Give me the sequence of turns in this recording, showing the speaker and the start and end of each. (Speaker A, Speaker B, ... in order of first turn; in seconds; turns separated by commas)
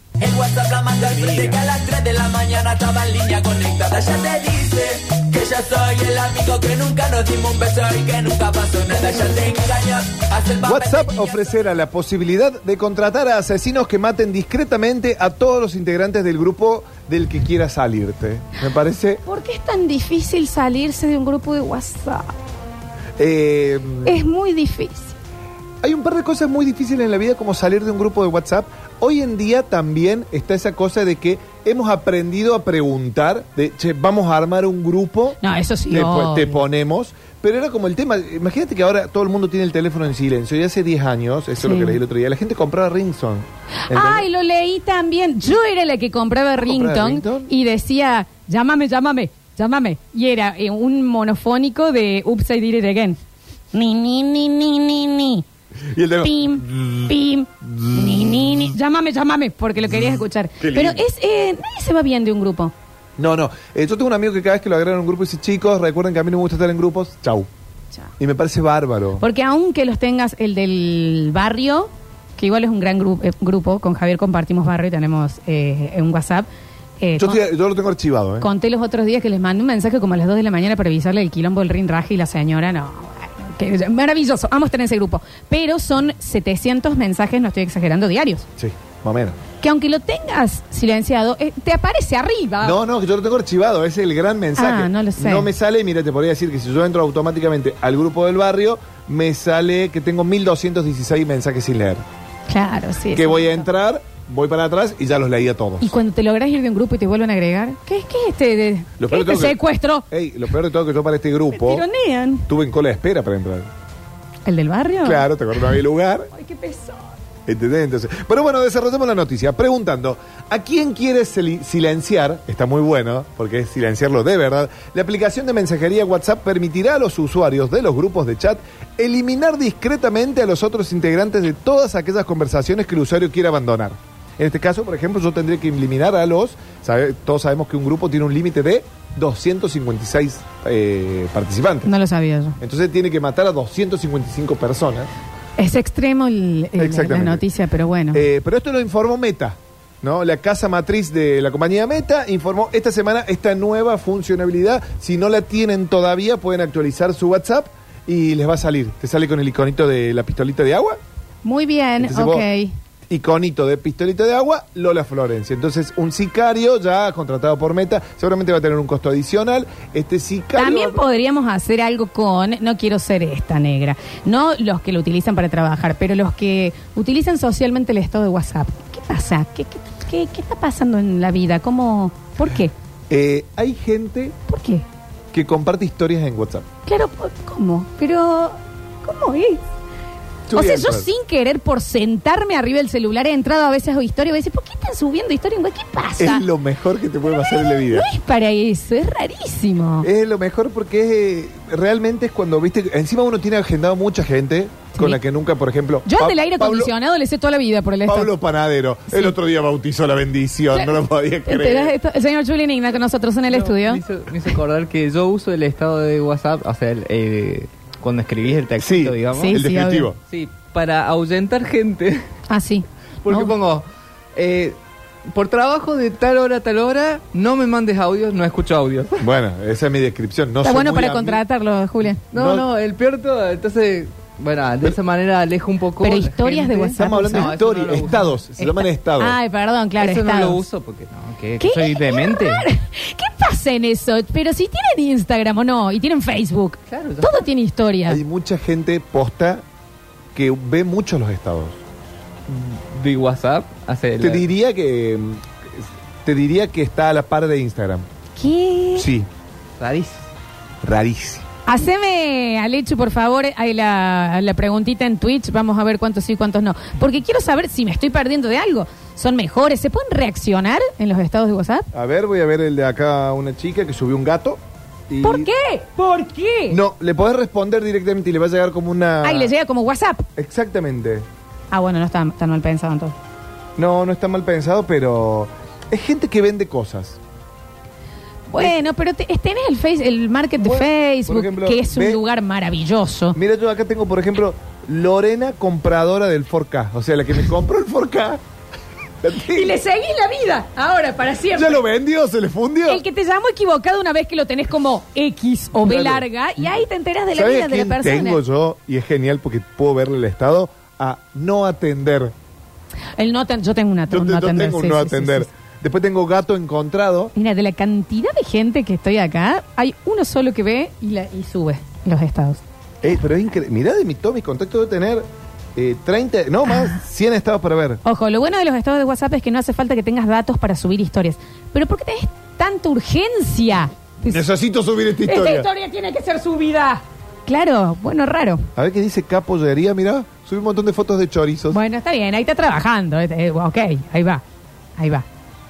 Speaker A: 0.2-11.4, Speaker B: 1.1-1.5, Speaker B: 10.6-19.2, Speaker C: 19.2-22.3, Speaker B: 23.2-24.2, Speaker C: 24.0-25.1, Speaker B: 25.8-35.4, Speaker C: 35.4-36.6, Speaker B: 35.9-44.2, Speaker C: 41.6-42.0, Speaker C: 43.9-53.2, Speaker B: 46.6-47.5, Speaker C: 53.7-55.4, Speaker B: 55.9-57.1, Speaker C: 56.2-62.7, Speaker B: 57.8-58.6, Speaker B: 59.9-61.0, Speaker B: 63.2-67.5, Speaker B: 68.2-69.2, Speaker C: 69.2-76.5, Speaker C: 77.0-77.4, Speaker B: 77.2-78.5, Speaker C: 78.4-88.4, Speaker B: 88.6-89.4, Speaker C: 89.6-92.8, Speaker B: 92.6-102.0, Speaker C: 94.5-95.5, Speaker C: 102.5-103.6, Speaker B: 103.1-105.9, Speaker C: 105.8-110.0, Speaker B: 109.0-111.8, Speaker C: 111.5-112.5, Speaker B: 112.5-113.7, Speaker C: 114.5-115.3, Speaker B: 115.0-116.3, Speaker C: 116.3-117.1, Speaker B: 117.5-141.9, Speaker C: 141.8-142.6, Speaker B: 142.6-145.1, Speaker C: 145.6-148.2, Speaker B: 146.8-147.4, Speaker B: 148.1-161.0, Speaker C: 161.4-162.7, Speaker B: 162.0-162.5, Speaker B: 163.1-171.0, Speaker C: 170.6-182.7, Speaker B: 183.1-184.3, Speaker C: 184.5-184.8, Speaker B: 185.3-186.6, Speaker C: 186.8-189.6, Speaker B: 190.5-191.1, Speaker C: 190.5-196.4, Speaker B: 196.2-198.1, Speaker C: 197.3-200.1, Speaker B: 200.0-206.9, Speaker C: 206.1-208.3, Speaker B: 208.1-211.9, Speaker C: 210.7-214.0, Speaker D: 213.5-219.6, Speaker B: 218.8-220.2, Speaker C: 219.3-220.1, Speaker D: 220.3-222.2, Speaker C: 222.5-223.5, Speaker D: 223.2-224.8, Speaker D: 225.3-229.2, Speaker B: 229.2-231.4, Speaker C: 230.6-232.2, Speaker D: 232.3-238.3, Speaker B: 232.3-232.7, Speaker C: 236.0-237.6, Speaker B: 237.0-239.4, Speaker C: 238.6-240.6, Speaker D: 240.0-242.6, Speaker C: 241.6-248.2, Speaker D: 246.9-247.4, Speaker B: 248.1-249.6, Speaker B: 250.3-251.8, Speaker D: 252.5-254.5, Speaker B: 254.2-258.1, Speaker C: 258.4-259.1, Speaker B: 259.0-259.3, Speaker D: 259.8-260.3, Speaker B: 260.8-261.4, Speaker C: 261.6-271.9, Speaker B: 271.9-275.5, Speaker C: 275.2-276.8, Speaker B: 276.7-279.5, Speaker C: 279.2-280.2, Speaker B: 280.4-281.2, Speaker C: 281.7-283.1, Speaker B: 283.8-287.2, Speaker C: 288.5-293.4, Speaker B: 290.6-292.2, Speaker B: 293.3-298.4, Speaker B: 299.2-299.8, Speaker C: 299.5-301.8, Speaker B: 301.5-303.0, Speaker C: 302.9-308.4, Speaker B: 305.8-306.2, Speaker B: 307.3-312.3, Speaker C: 313.2-315.5, Speaker B: 314.1-317.3, Speaker C: 317.3-322.6, Speaker B: 323.0-328.0, Speaker C: 326.7-327.0, Speaker C: 328.0-334.4, Speaker B: 334.2-335.7, Speaker C: 335.2-338.6, Speaker B: 338.7-341.8, Speaker C: 341.7-344.4, Speaker C: 345.0-345.2